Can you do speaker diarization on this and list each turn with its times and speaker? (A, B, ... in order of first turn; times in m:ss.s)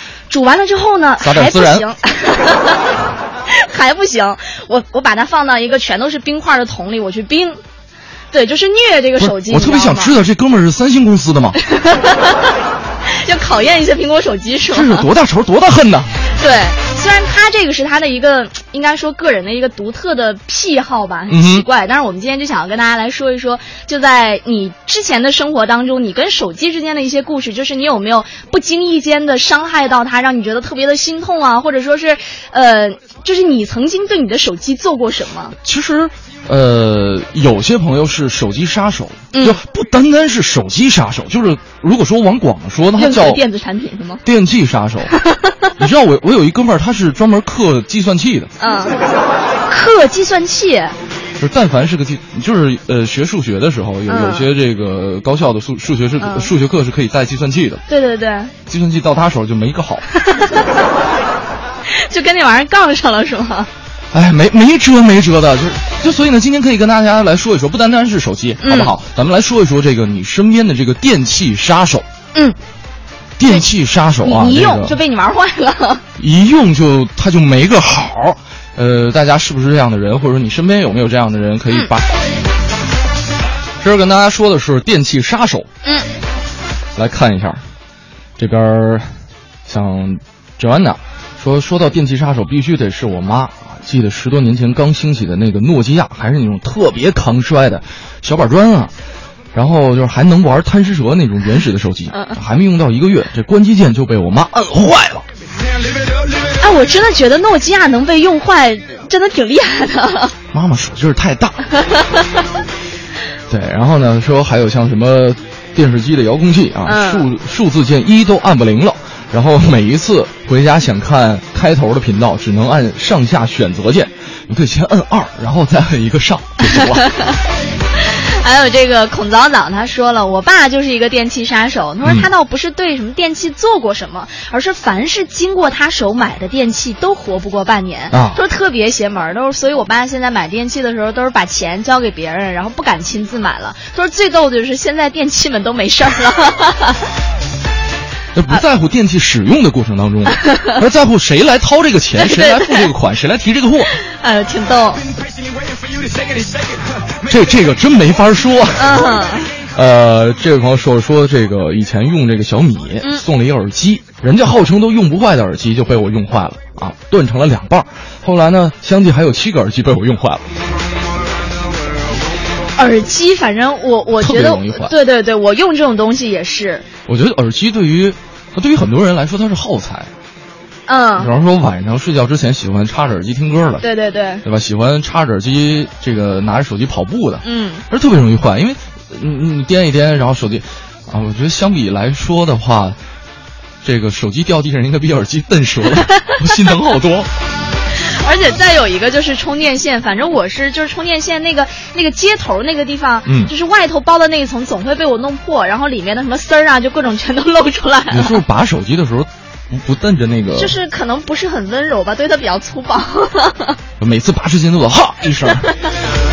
0:00.3-0:02.9 A
0:01.2-0:01.8 B
0:03.5-0:07.6 A
0:08.3-0:10.2 A
0:09.2-0:11.6 B
0:11.6-0:15.0 A
0:14.7-0:16.1 B
0:16.4-0:35.6 A
0:21.3-0:21.6 B
0:35.6-0:43.4 B
0:39.3-0:39.6 A
0:43.0-0:44.2 A
0:44.2-0:45.1 B
0:45.1-0:45.7 A
0:45.8-0:48.5 B
0:48.6-0:49.0 A
0:49.7-0:50.9 A
0:51.4-0:57.8 B
0:54.1-0:54.5 A
0:56.2-0:56.5 A
0:57.9-0:58.5 A
0:58.7-1:00.0 B
1:00.1-1:00.7 A
1:01.9-1:03.7 A
1:04.1-1:12.0 B
1:08.6-1:08.9 A
1:13.4-1:15.0 B
1:14.2-1:16.0 A
1:16.2-1:22.1 B
1:23.8-1:25.7 B
1:27.0-1:27.6 B
1:28.4-1:29.1 B
1:29.6-1:38.9 B
1:39.5-1:45.2 B
1:46.6-1:50.3 A
1:50.5-1:51.6 B
1:51.9-1:52.2 A
1:53.5-2:07.1 B
1:56.8-1:57.2 A
2:06.7-2:07.4 A
2:08.0-2:27.1 A
2:12.0-2:12.3 B
2:18.1-2:18.4 B
2:28.3-2:33.9 B
2:30.3-2:30.7 A
2:32.2-2:32.9 A
2:34.0-2:35.0 A
2:37.2-2:39.1 B
2:38.8-2:39.5 A
2:39.7-2:50.4 B
2:52.8-2:56.8 A
2:54.2-2:54.9 B
2:57.1-3:00.1 B
3:00.9-3:01.3 A
3:01.2-3:03.8 B
3:03.8-3:04.4 A
3:04.4-3:13.0 B
3:07.4-3:07.8 A
3:13.8-3:17.3 B
3:16.1-3:16.5 A
3:18.0-3:28.4 A
3:23.2-3:23.5 B
3:28.1-3:30.7 B
3:30.5-3:33.8 A
3:34.0-3:35.7 B